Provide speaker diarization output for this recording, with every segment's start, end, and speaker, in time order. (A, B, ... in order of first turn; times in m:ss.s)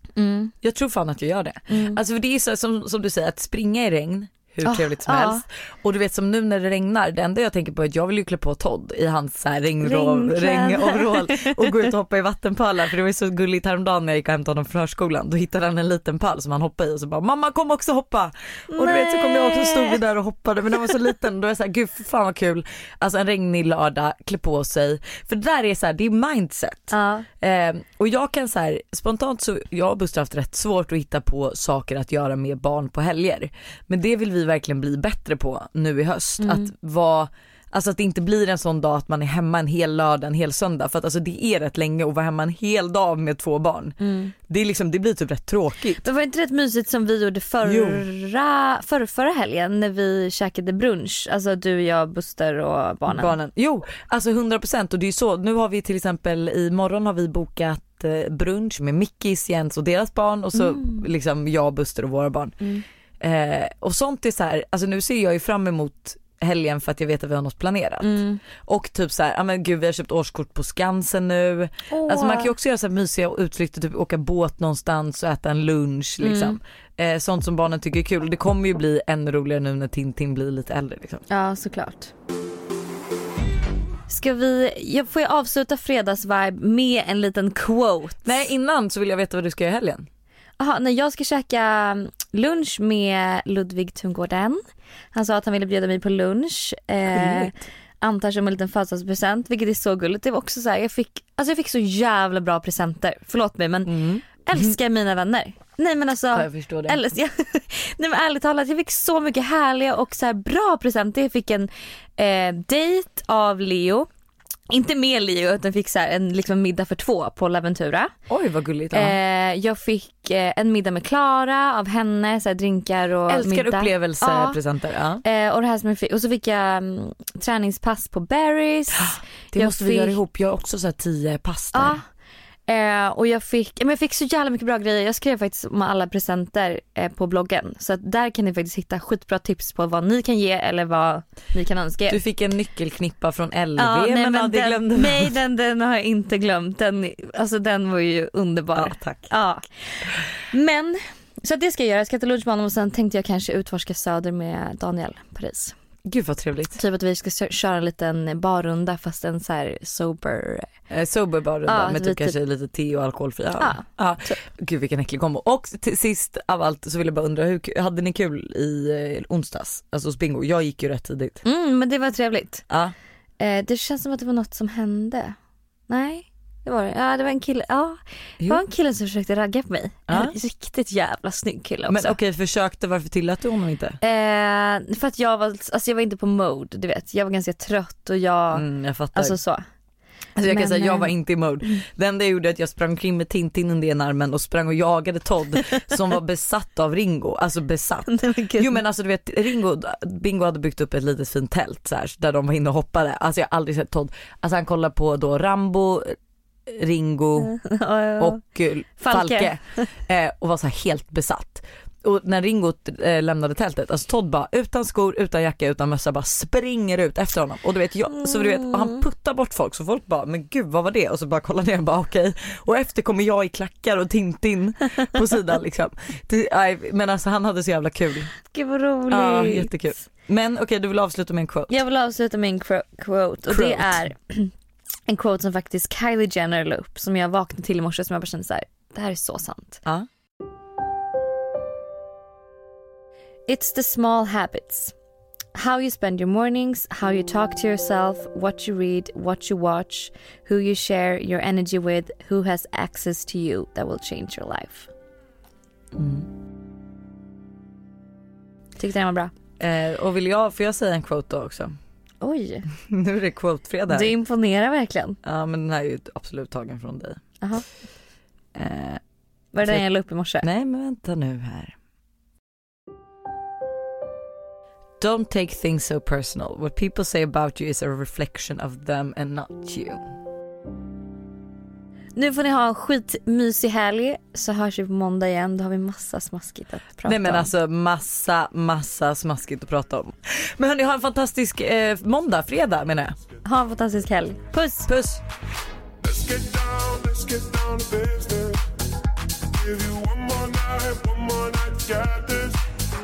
0:00.2-0:00.5 A
0:00.6-0:44.0 B
0:01.7-0:02.0 A
0:04.6-0:05.4 A
0:09.8-0:11.9 A
0:18.7-0:20.0 A
0:26.9-0:27.3 A
0:36.4-0:36.7 A
0:44.0-0:44.3 A
0:44.5-0:46.0 B
0:46.0-0:53.4 A
0:47.6-0:48.0 B
0:53.1-1:02.6 B
1:00.5-1:01.1 A
1:03.2-1:21.2 B
1:08.0-1:08.4 A
1:11.9-1:12.5 A
1:16.2-1:16.6 A
1:21.3-1:22.1 A
1:24.1-1:28.4 A
1:28.2-1:30.1 B
1:30.6-1:34.6 A
1:35.1-1:54.1 A
1:37.1-1:37.5 B
1:43.9-1:44.8 B
1:46.3-1:47.0 B
1:54.7-1:58.1 A
1:58.3-1:59.2 B
1:58.9-2:04.6 A
2:03.3-2:05.2 B
2:05.2-2:10.2 A
2:08.9-2:12.0 B
2:11.7-2:12.0 A
2:12.7-2:22.2 A
2:22.1-2:25.3 B
2:23.8-2:35.8 A
2:28.8-2:29.3 B
2:36.1-2:36.8 B
2:36.7-2:40.7 A
2:40.9-2:51.4 B
2:41.7-2:42.4 A
2:43.6-2:44.4 A
2:51.4-2:52.6 A
2:53.4-2:55.4 A
2:55.9-3:02.2 A
3:00.1-3:00.4 B
3:01.9-3:04.0 B
3:04.0-3:09.6 A
3:08.5-3:09.4 B
3:10.4-3:27.5 B
3:10.5-3:11.1 A
3:18.1-3:18.8 A
3:27.4-3:28.4 A
3:28.2-3:48.3 B
3:29.0-3:29.9 A
3:38.2-3:39.0 A
3:48.5-3:49.8 A
3:49.1-3:51.7 B
3:51.7-3:54.5 A
3:53.5-3:54.0 B
3:55.1-3:59.8 A
4:03.5-4:05.0 A
4:05.6-4:14.9 A
4:16.0-4:16.3 B
4:18.8-4:19.3 A
4:19.6-4:21.8 B
4:22.2-4:22.7 A
4:22.9-4:24.1 B
4:23.9-4:25.2 A
4:25.2-4:27.2 B
4:27.4-4:27.7 A
4:28.6-4:29.0 B
4:29.5-4:30.5 A
4:30.4-4:31.8 B
4:35.0-4:40.0 B
4:42.2-4:47.5 A
4:47.0-4:53.2 B
4:53.4-4:54.9 A
4:54.9-4:55.2 B
4:56.0-4:58.6 C
4:59.6-5:02.6 C